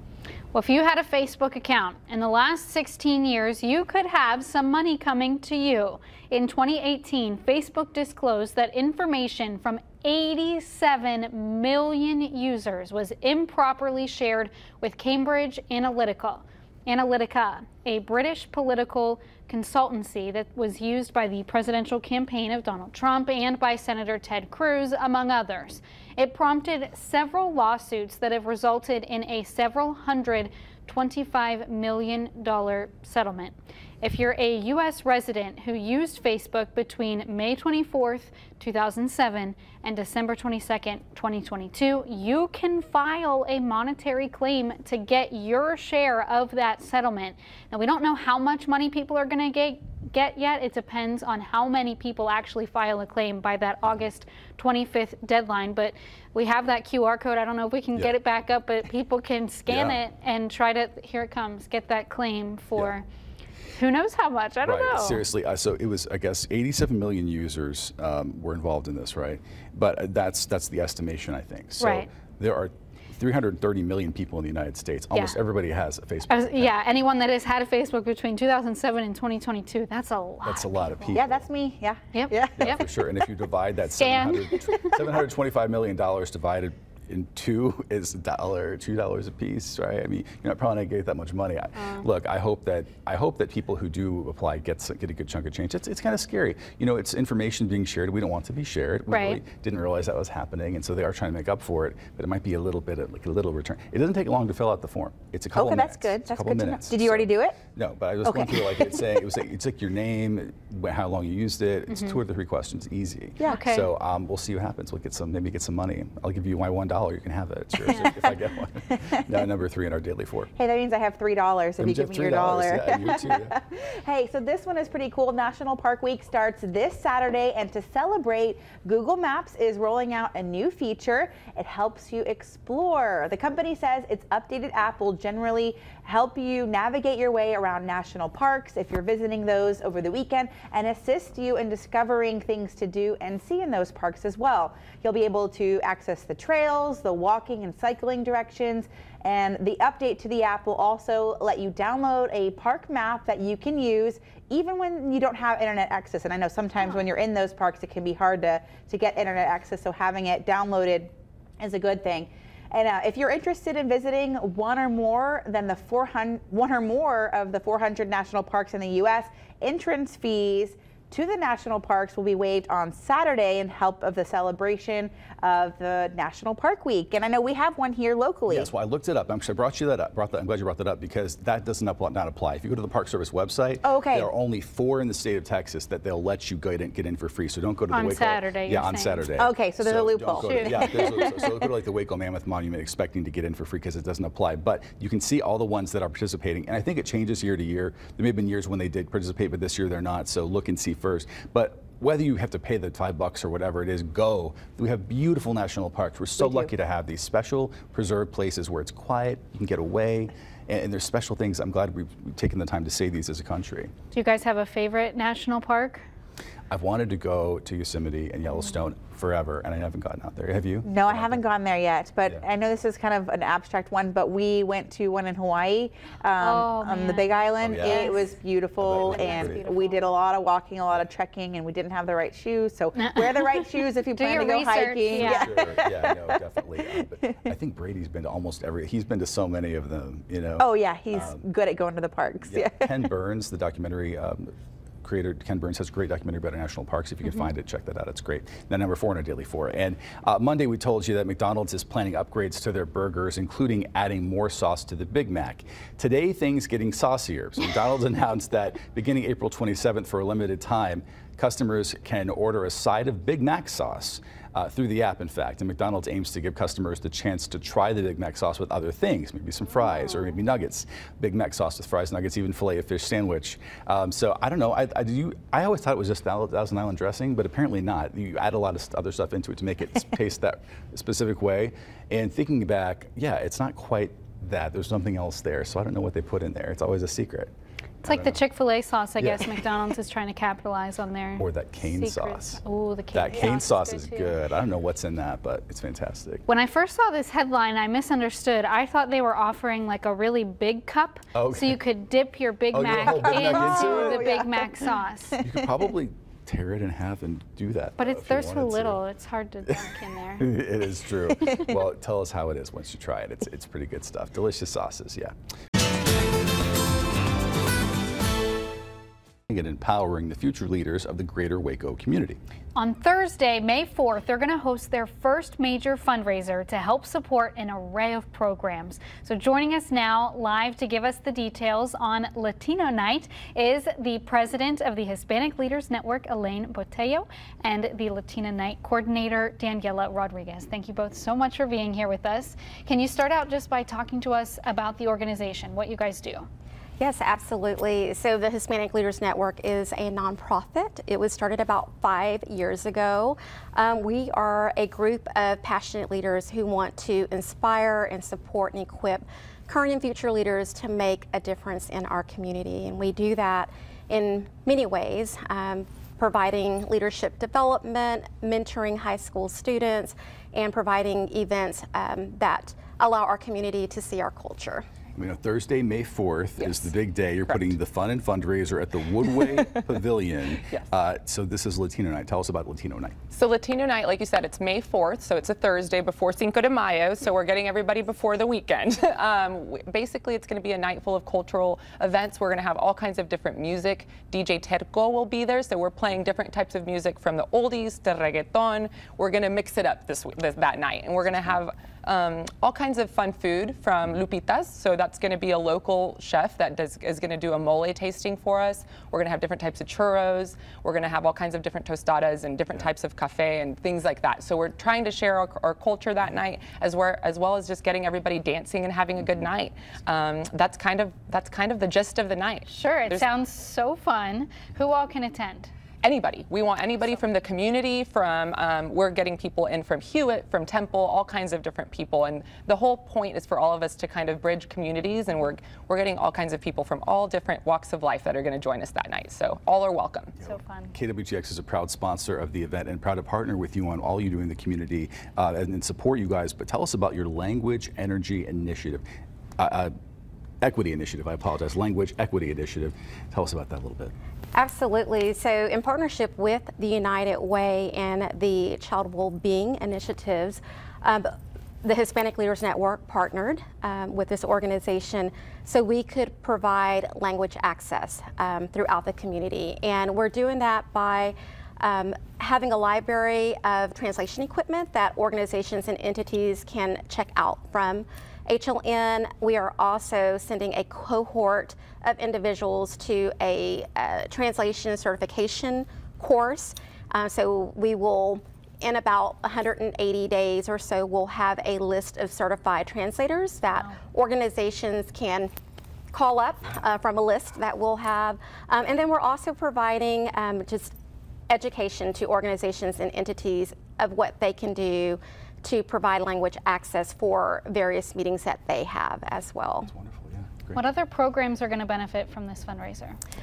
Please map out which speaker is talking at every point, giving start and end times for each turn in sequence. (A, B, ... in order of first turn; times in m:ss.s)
0:00.5-1:03.0 A
0:59.7-1:00.0 B
1:03.8-1:05.2 A
1:04.6-1:16.7 B
1:11.8-1:12.1 A
1:15.1-1:15.4 A
1:16.3-1:21.2 A
1:20.4-1:21.4 B
1:21.1-1:22.8 C
1:22.1-1:22.8 A
1:22.6-2:00.5 B
1:24.0-1:24.9 A
1:31.8-1:32.0 A
1:39.1-1:39.4 A
1:45.5-1:47.6 C
1:48.2-1:49.2 C
1:51.9-1:52.2 A
1:53.4-1:53.9 A
2:00.6-2:58.7 C
2:01.8-2:03.5 B
2:58.5-3:33.9 B
3:03.8-3:04.3 C
3:07.9-3:09.4 A
3:09.4-3:11.5 C
3:10.4-3:11.3 A
3:26.4-3:26.7 C
3:34.1-3:36.0 A
3:36.7-3:41.4 B
3:40.8-3:57.5 C
3:46.4-3:48.3 A
3:47.6-3:48.2 B
3:48.8-3:49.6 B
3:48.9-3:50.1 A
3:53.0-3:53.4 A
3:54.1-3:55.6 A
3:55.1-4:01.4 B
4:00.6-4:02.9 C
4:02.4-4:04.5 B
4:05.0-4:47.5 B
4:48.0-4:54.4 A
4:48.0-4:48.4 B
4:49.2-4:49.5 B
4:51.4-4:52.6 B
4:53.1-4:56.4 B
4:56.5-5:05.4 A
5:01.3-5:01.8 B
5:02.7-5:04.3 B
5:03.1-5:05.5 C
5:05.4-5:09.0 B
5:08.0-5:10.5 A
5:10.4-5:15.3 B
5:19.5-5:22.4 B
5:22.7-5:46.4 A
5:47.0-6:14.8 D
6:15.1-6:23.2 B
6:16.6-6:16.9 E
6:17.4-6:17.8 E
6:19.4-6:20.0 E
6:20.6-6:20.9 E
6:23.3-7:03.2 E
7:02.7-7:05.7 A
7:06.0-7:20.3 E
7:20.4-7:29.0 B
7:20.4-7:20.9 A
7:29.6-7:29.9 B
7:30.6-7:34.1 B
7:34.5-7:41.3 D
7:41.8-8:15.5 D
8:16.1-8:20.9 D
8:21.5-8:29.9 D
8:29.8-8:30.8 B
8:30.7-8:33.2 A